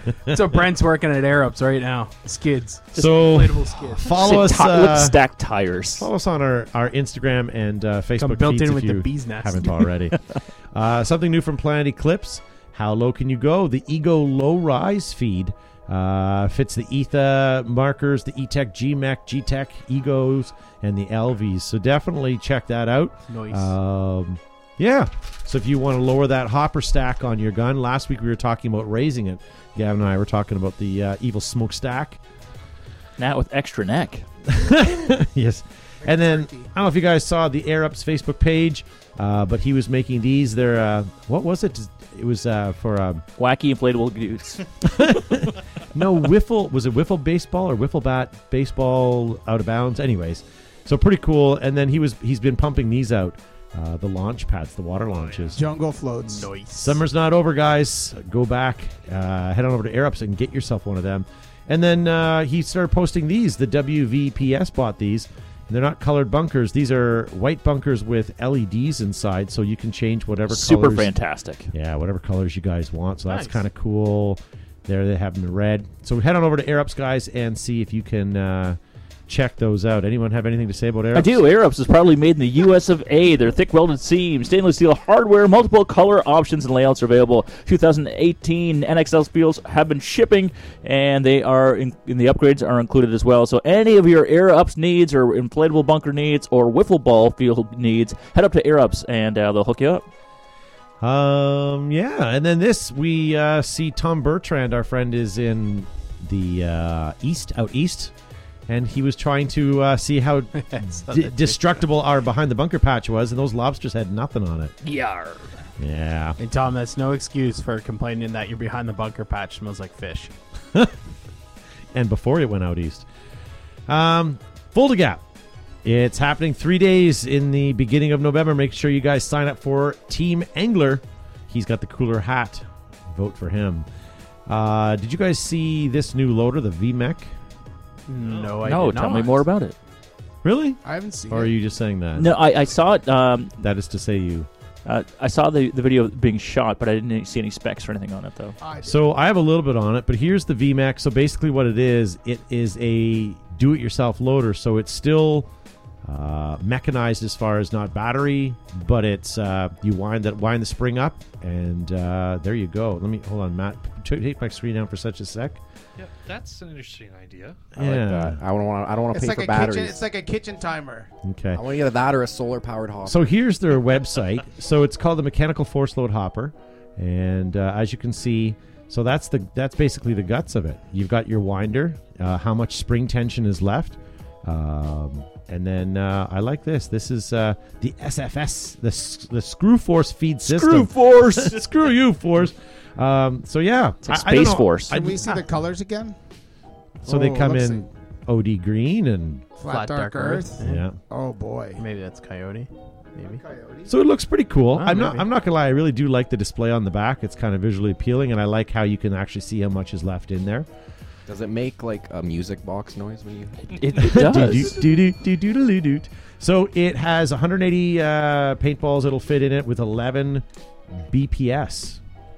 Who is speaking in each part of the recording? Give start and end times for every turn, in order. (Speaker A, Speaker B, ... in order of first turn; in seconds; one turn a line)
Speaker A: 0.2-4.6
Speaker B: 2.9-5.2
Speaker C: 4.1-6.1
Speaker B: 6.0-10.2
Speaker A: 8.2-9.9
Speaker B: 10.7-32.2
Speaker A: 23.3-23.7
Speaker C: 33.2-34.2
Speaker B: 34.5-43.2
Speaker D: 36.0-36.7
Speaker C: 43.4-45.2
Speaker B: 44.8-55.6
Speaker E: 55.1-55.6
Speaker D: 55.5-56.5
Speaker A: 56.2-57.0
Speaker B: 56.7-71.1
Speaker C: 70.5-71.7
Speaker B: 71.7-81.4
Speaker A: 73.3-73.6
Speaker C: 81.1-100.0
Speaker B: 101.0-108.1
Speaker B: 108.7-114.7
Speaker A: 110.5-111.7
Speaker C: 114.8-115.5
Speaker B: 115.8-116.4
Speaker A: 116.4-120.3
Speaker B: 121.9-123.0
Speaker B: 123.9-125.2
Speaker B: 125.8-133.9
Speaker B: 134.5-137.3
Speaker A: 138.1-139.5
Speaker E: 138.2-139.1
Speaker C: 138.6-139.7
Speaker B: 140.4-142.4
Speaker D: 140.8-141.5
Speaker C: 142.2-143.6
Speaker B: 143.6-144.5
Speaker C: 144.8-148.6
Speaker D: 148.6-149.0
Speaker B: 148.8-155.5
Speaker B: 156.0-165.6
Speaker E: 166.0-167.7
Speaker F: 167.7-170.0
Speaker B: 167.8-168.4
Speaker D: 169.1-171.1
Speaker B: 171.2-171.6
Speaker F: 171.5-173.3
Speaker B: 173.1-195.3
Speaker C: 190.4-191.7
Speaker C: 194.1-195.0
Speaker D: 194.9-196.2
Speaker B: 197.0-199.5
Speaker D: 197.1-197.9
Speaker D: 199.6-201.8
Speaker A: 199.6-200.8
Speaker B: 200.6-200.9
Speaker A: 201.8-203.4
Speaker D: 203.2-203.9
Speaker B: 203.9-210.7
Speaker A: 204.7-205.3
Speaker F: 211.3-213.6
Speaker C: 213.7-214.8
Speaker B: 214.0-220.4
Speaker B: 221.1-222.0